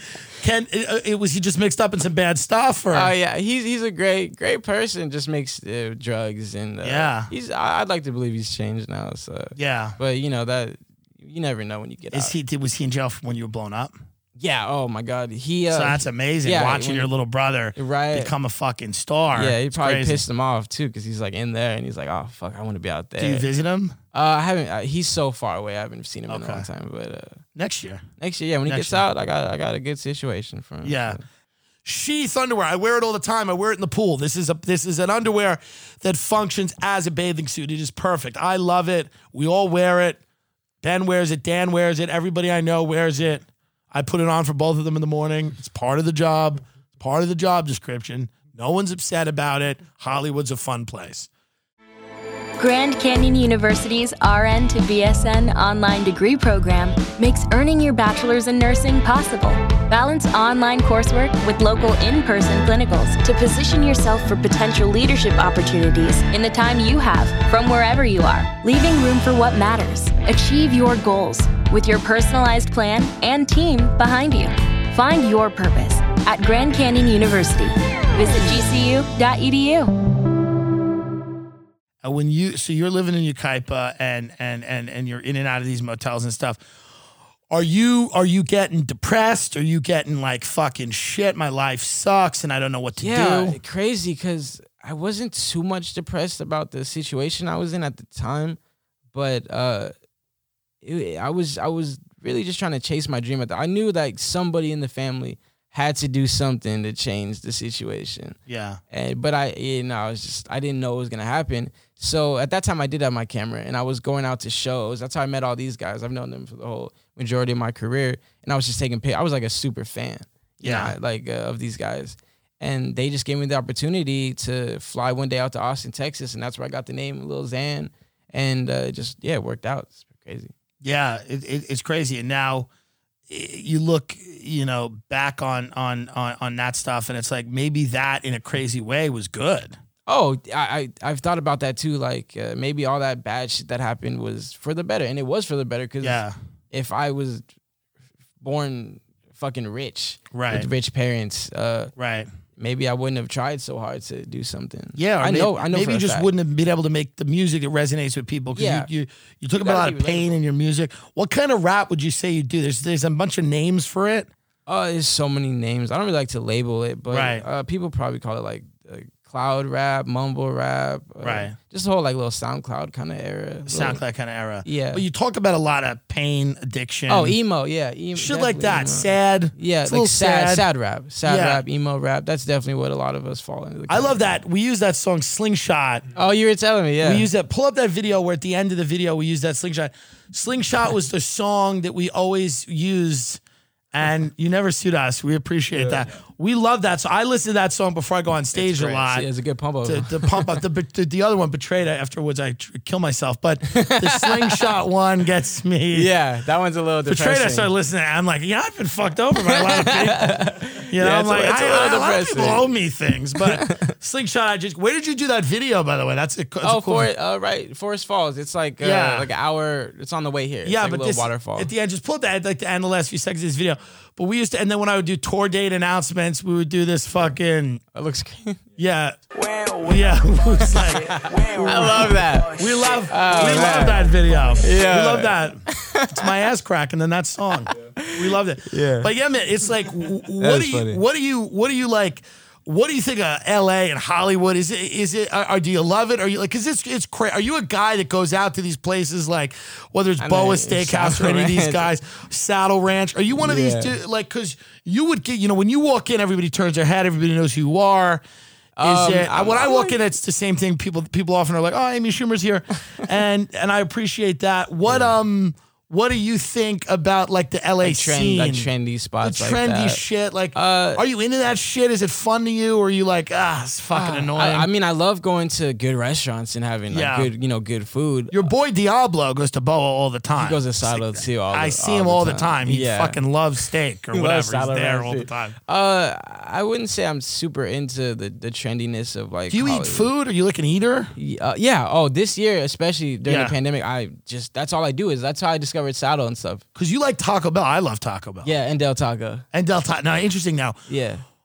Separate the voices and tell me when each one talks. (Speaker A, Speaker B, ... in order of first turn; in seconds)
Speaker A: 0.4-3.1, 6.8-7.3, 9.6-10.0, 12.1-13.9, 15.7-20.2, 23.2-24.0, 26.3-26.6, 27.6-28.0, 28.7-29.0, 30.8-31.2, 31.8-40.2, 40.8-51.3, 82.0-86.6, 87.5-93.6, 108.5-108.8, 120.6-120.9, 130.8-132.7, 133.3-139.8, 146.0-146.3, 150.3-150.7, 152.0-152.3, 154.9-164.3, 167.1-167.4, 171.2-171.5, 173.7-177.4, 178.1-180.7, 181.2-181.6, 183.9-186.1, 187.0-193.4, 193.9-199.3, 199.8-206.1, 207.1-217.1, 218.8-219.3, 220.6-227.8, 228.8-229.2, 229.8-258.2, 258.8-268.7, 269.2-274.7, 276.9-277.3, 278.3-285.6, 289.5-291.1, 293.2-293.6, 296.7-298.5, 299.5-300.8
Speaker B: 2.9-12.3, 14.4-17.1, 17.8-18.3, 19.3-23.5, 24.1-27.4, 28.2-31.2, 93.0-98.6, 99.1-99.9, 100.8-108.4, 108.9-130.5, 140.1-147.4, 148.4-151.9, 152.6-156.3, 158.6-158.9, 159.6-160.3, 164.7-174.0, 174.6-175.0, 177.1-184.3, 186.1-187.3, 195.7-196.1, 198.5-200.6, 203.7-204.8, 205.9-207.7, 209.3-212.7, 213.4-213.9, 216.6-221.7, 227.9-228.6, 231.0-236.4, 237.7-239.1, 240.4-241.0, 250.2-251.9, 253.4-253.9, 258.8-260.0, 264.9-265.1, 267.8-270.0, 270.5-271.0, 273.9-278.5, 280.3-290.1, 291.1-296.6, 298.4-299.4, 300.9-301.2
Speaker C: 52.6-79.9